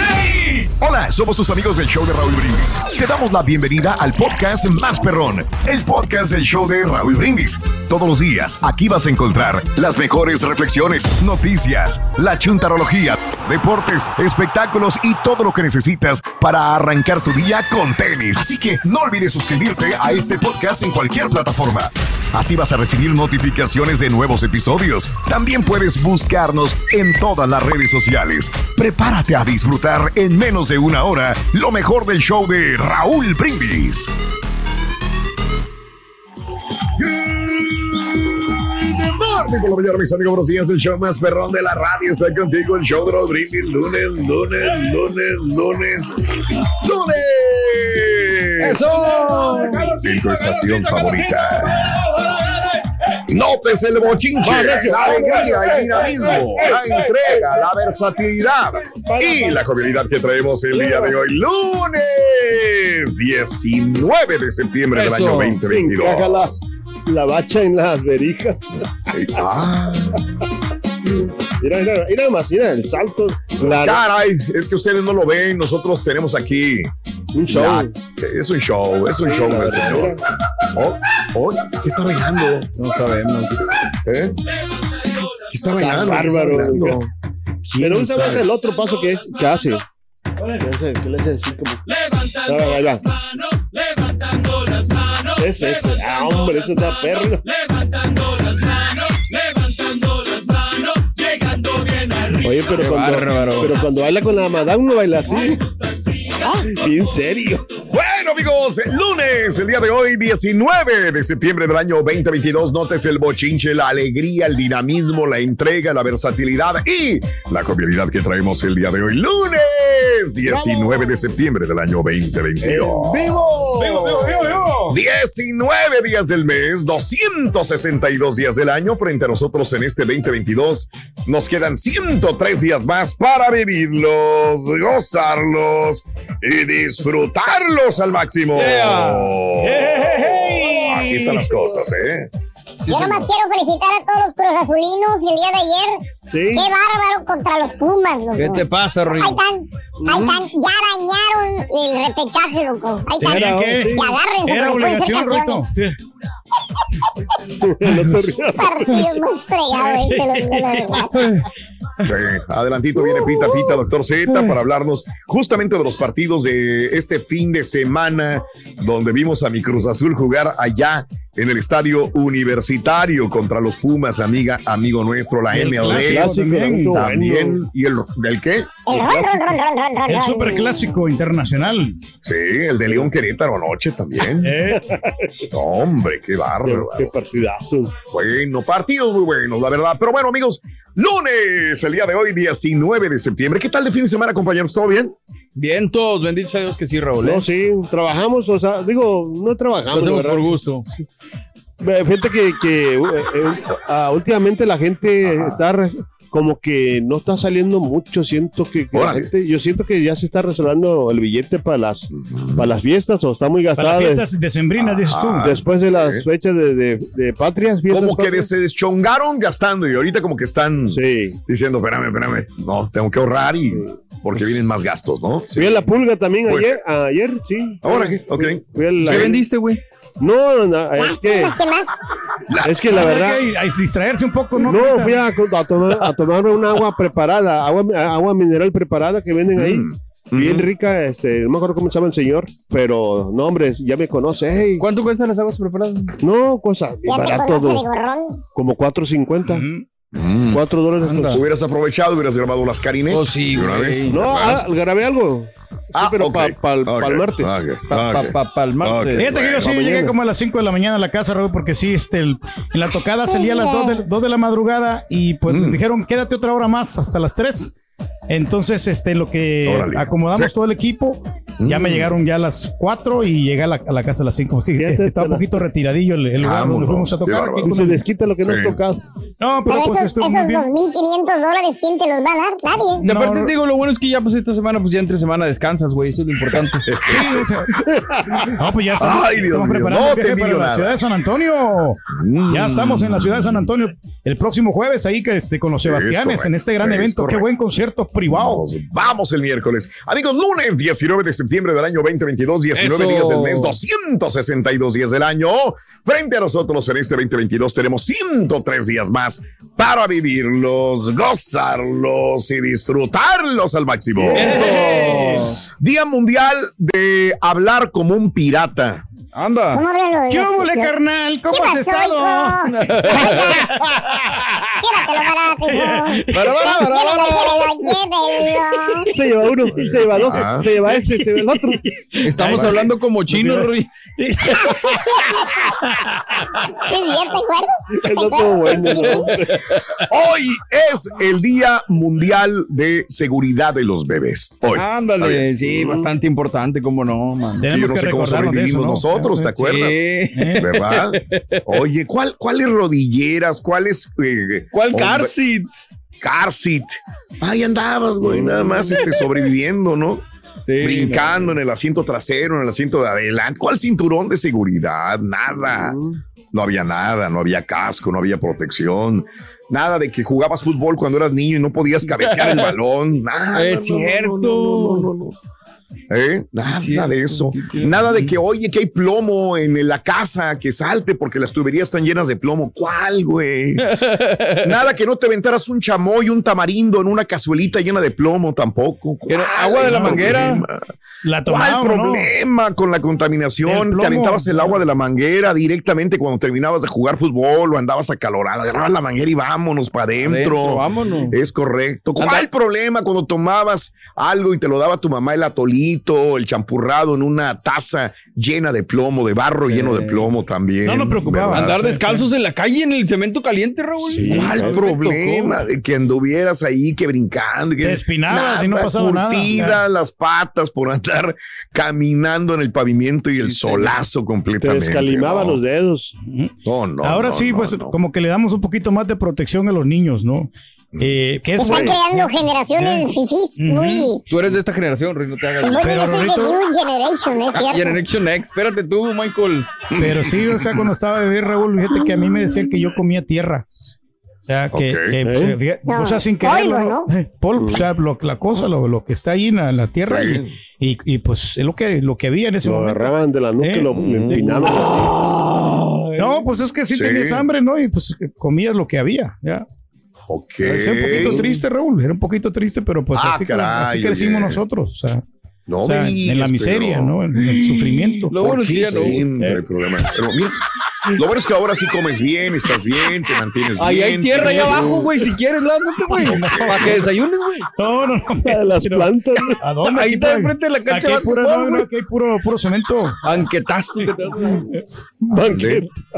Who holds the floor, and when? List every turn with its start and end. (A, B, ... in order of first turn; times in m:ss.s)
0:00.2-0:00.7 A
0:00.8-0:34.1 B
0:37.0-0:48.8 B
0:48.6-0:49.9 C
0:50.0-0:52.0 B
0:53.3-1:06.6 B
0:54.4-0:56.0 D
0:59.1-0:59.6 D
1:00.8-1:01.1 D
1:04.9-1:05.6 C
1:05.7-1:06.5 D
1:07.1-1:08.6 D
1:09.1-1:10.2 B
1:11.6-1:14.0 D
1:13.6-1:16.9 B
1:17.3-1:17.9 D
1:17.5-1:20.2 B
1:19.2-1:20.2 D
1:20.7-1:22.7 B
1:22.8-1:23.6 C
1:24.0-1:24.3 B
1:25.5-1:27.0 B
1:25.8-1:27.1 D
1:27.6-1:28.5 B
1:27.8-1:29.8 D
1:30.6-1:31.8 D
1:32.4-1:33.0 D
1:35.3-1:37.4 D
1:42.4-1:45.6 D
1:42.7-1:43.8 C
1:46.6-1:47.7 D
1:47.8-2:03.9 B
2:00.5-2:01.0 D
2:02.7-2:04.3 D
2:03.8-2:04.8 A
2:04.9-2:22.3 B
2:18.5-2:19.4 C
2:19.7-2:21.2 A
2:22.8-2:23.3 C
2:22.9-2:26.0 E
2:26.3-2:26.7 D
2:26.5-2:35.6 E
2:28.4-2:29.4 C
2:30.0-2:30.4 D
2:33.2-2:34.1 D
2:33.2-2:35.9 A
2:37.6-2:38.9 D
2:38.6-2:41.1 E
2:39.8-2:41.0 A
2:41.1-2:41.4 C
2:42.0-2:56.4 B
2:55.5-2:57.0 A
2:55.8-2:57.6 D
2:56.9-2:58.8 B
2:58.8-3:00.9 E
2:58.9-2:59.6 D
3:00.1-3:02.0 A
3:02.2-3:04.5 B
3:04.4-3:04.9 A
3:04.8-3:05.3 D
3:05.5-3:07.1 B
3:06.6-3:07.9 D
3:08.1-3:15.1 B
3:15.6-3:17.4 C
3:17.2-3:20.5 D
3:19.9-3:20.8 C
3:21.8-3:34.2 D
3:28.9-3:29.3 B
3:32.1-3:32.7 B
3:33.8-3:35.5 A
3:34.8-3:36.2 B
3:35.4-3:38.5 D
3:37.9-3:45.8 B
3:40.9-3:41.4 D
3:45.5-3:49.4 D
3:46.5-3:46.8 B
3:47.8-3:49.3 B
3:49.0-3:49.8 C
3:50.2-3:51.6 D
3:51.0-3:51.9 E
3:52.5-3:52.9 B
3:52.6-3:53.4 D
3:52.9-3:55.2 A
3:54.6-4:04.8 D
3:59.6-4:00.6 B
4:04.8-4:06.1 C
4:06.2-4:07.8 D
4:07.0-4:08.4 E
4:08.5-4:09.6 D
4:09.5-4:09.8 A
4:10.1-4:10.6 B
4:10.5-4:11.4 D
4:11.0-4:11.4 C
4:11.3-4:14.6 B
4:13.1-4:14.1 C
4:14.1-4:17.5 D
4:15.9-4:19.7 B
4:17.9-4:19.3 C
4:19.2-4:27.7 A
4:19.4-4:20.1 D
4:23.3-4:23.9 E
4:25.5-4:25.8 B
4:28.3-4:38.0 A
4:29.6-4:30.5 B
4:31.6-4:32.1 B
4:34.8-4:35.5 D
4:36.4-4:37.7 B
4:37.6-4:39.0 D
4:38.4-4:38.8 B
4:39.4-4:40.7 A
4:39.7-4:43.0 E
4:43.0-4:43.5 A
4:43.0-4:46.8 C
4:46.8-4:47.4 B
4:47.1-4:47.7 A
4:47.9-4:48.4 D
4:48.6-4:58.6 A
4:49.0-4:51.0 B
4:52.1-4:53.7 B
4:55.8-4:57.5 B
4:58.3-5:14.5 B
5:02.7-5:03.8 C
5:14.4-5:15.6 C
5:14.4-5:15.3 A
5:15.8-5:19.0 B
5:19.3-5:19.8 C
5:19.7-5:20.9 E
5:20.3-5:22.6 A
5:21.5-5:23.6 E
5:22.7-5:23.5 C
5:23.2-5:24.7 A
5:24.8-5:29.1 E
5:25.7-5:26.6 A
5:26.3-5:27.7 C
5:29.1-5:31.8 D
5:30.2-5:30.7 B
5:31.5-5:36.8 A
5:32.2-5:33.9 C
5:32.5-5:32.8 B
5:34.7-5:35.8 E
5:36.9-5:39.2 E
5:37.9-5:39.6 D
5:40.1-5:46.1 B
5:44.7-5:47.7 C
5:47.6-5:49.5 A
5:47.7-5:50.0 B
5:49.6-5:51.6 C
5:50.4-5:50.6 A
5:50.6-5:55.3 B
5:54.7-5:55.7 C
5:56.2-6:00.2 B
5:58.3-5:58.7 D
6:00.6-6:01.5 C
6:00.8-6:06.0 B
6:05.7-6:06.2 D
6:06.5-6:14.8 B
6:12.1-6:12.7 C
6:13.5-6:15.1 C
6:16.1-6:23.9 B
6:16.6-6:18.1 C
6:23.8-6:24.7 C
6:24.6-6:30.9 B
6:29.3-6:30.6 C
6:31.2-6:32.3 A
6:31.5-6:51.8 B
6:33.6-6:34.8 A
6:40.2-6:41.3 C
6:42.2-6:42.5 C
6:49.6-6:50.3 C
6:50.8-6:52.2 A
6:51.5-6:54.7 C
6:54.2-6:54.7 D
6:54.2-6:55.5 A
6:54.2-7:05.6 B
6:57.8-6:59.8 A
7:03.5-7:03.8 C
7:04.6-7:06.1 D
7:06.3-7:14.1 A
7:06.6-7:08.0 B
7:11.6-7:14.2 E
7:11.6-7:12.0 D
7:14.3-7:15.9 C
7:15.6-7:18.0 E
7:15.8-7:16.6 A
7:17.7-7:19.7 C
7:19.9-7:20.8 B
7:20.0-7:23.7 A
7:24.5-7:35.0 A
7:24.7-7:25.2 B
7:25.2-7:25.6 D
7:25.8-7:27.1 E
7:27.6-7:27.8 D
7:30.1-7:30.5 B
7:32.6-7:35.2 D
7:33.9-7:35.8 B
7:36.2-7:39.6 A
7:36.9-7:37.4 B
7:40.3-7:41.5 B
7:40.6-7:45.2 A
7:43.1-7:44.6 B
7:45.7-7:50.6 B
7:45.8-7:48.3 A
7:48.3-7:49.2 C
7:51.1-7:55.0 B
7:53.8-7:57.7 C
7:54.4-7:54.9 A
7:56.1-7:57.0 B
7:56.2-7:57.0 A
7:57.8-8:03.2 A
7:58.4-7:59.6 D
7:59.9-8:01.8 C
8:03.2-8:04.6 C
8:05.3-8:05.9 D
8:05.3-8:05.8 B